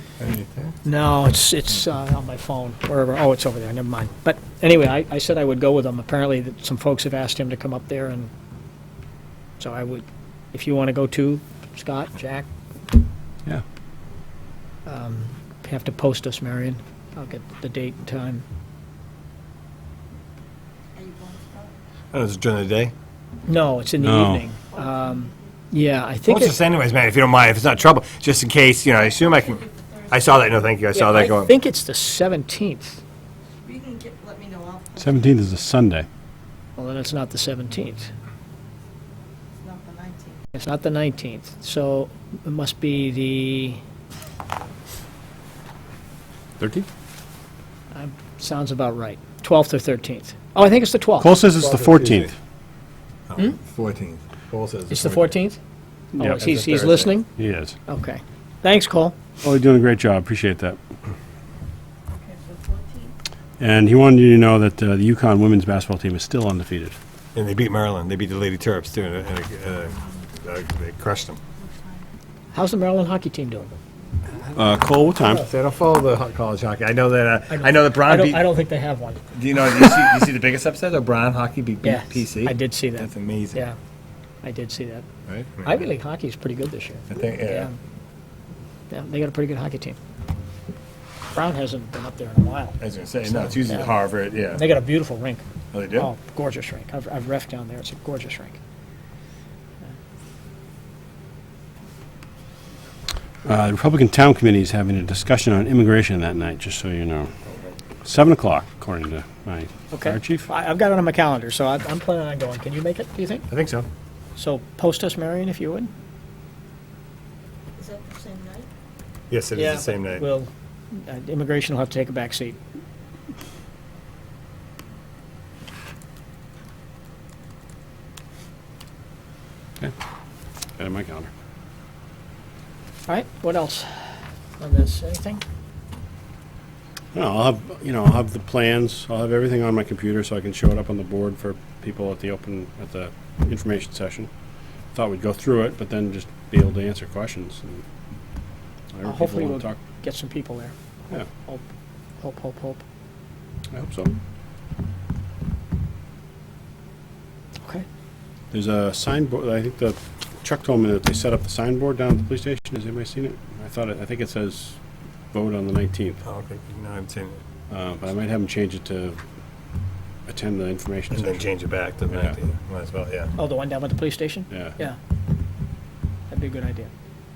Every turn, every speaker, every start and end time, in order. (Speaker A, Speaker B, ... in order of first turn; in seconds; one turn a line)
Speaker A: 0.2-0.8
Speaker B: 0.8-8.3
Speaker B: 9.6-12.5
Speaker B: 14.8-18.4
Speaker C: 20.9-21.7
Speaker A: 22.1-22.9
Speaker B: 23.5-26.6
Speaker D: 24.0-24.4
Speaker C: 24.8-25.4
Speaker A: 26.3-31.5
Speaker C: 29.2-30.1
Speaker B: 30.9-33.0
Speaker C: 33.6-35.1
Speaker D: 35.0-36.0
Speaker B: 36.8-38.1
Speaker C: 39.6-40.4
Speaker B: 40.5-43.8
Speaker D: 46.6-46.9
Speaker B: 47.9-51.4
Speaker D: 51.2-52.3
Speaker A: 51.5-52.3
Speaker A: 53.3-55.3
Speaker B: 54.9-55.6
Speaker D: 56.1-56.4
Speaker B: 56.1-57.3
Speaker A: 56.4-57.1
Speaker D: 57.4-57.8
Speaker B: 57.9-59.1
Speaker D: 59.4-60.8
Speaker C: 62.1-63.1
Speaker D: 63.6-67.0
Speaker A: 67.3-71.4
Speaker C: 71.6-72.0
Speaker B: 72.5-73.7
Speaker D: 74.5-75.5
Speaker A: 75.2-78.5
Speaker B: 77.5-79.2
Speaker A: 79.3-83.6
Speaker B: 81.8-83.8
Speaker B: 84.4-85.0
Speaker A: 85.3-85.8
Speaker B: 85.6-87.8
Speaker A: 87.1-87.7
Speaker B: 88.9-90.0
Speaker B: 91.3-94.0
Speaker A: 92.8-94.7
Speaker B: 94.5-98.6
Speaker A: 95.7-96.1
Speaker D: 103.4-107.3
Speaker D: 108.0-110.5
Speaker B: 109.9-113.5
Speaker A: 113.5-113.9
Speaker B: 114.3-115.9
Speaker C: 117.8-118.7
Speaker A: 119.3-120.2
Speaker B: 119.5-122.6
Speaker D: 130.8-131.3
Speaker B: 133.1-135.4
Speaker D: 137.1-144.3
Speaker D: 144.9-147.8
Speaker D: 148.9-149.8
Speaker B: 149.0-150.7
Speaker B: 151.2-151.6
Speaker B: 152.2-152.8
Speaker D: 153.7-154.1
Speaker D: 158.5-164.8
Speaker D: 165.3-166.2
Speaker A: 166.2-167.4
Speaker D: 167.7-169.2
Speaker D: 170.3-171.5
Speaker A: 171.1-173.3
Speaker D: 172.1-172.3
Speaker B: 173.3-175.0
Speaker B: 176.3-176.9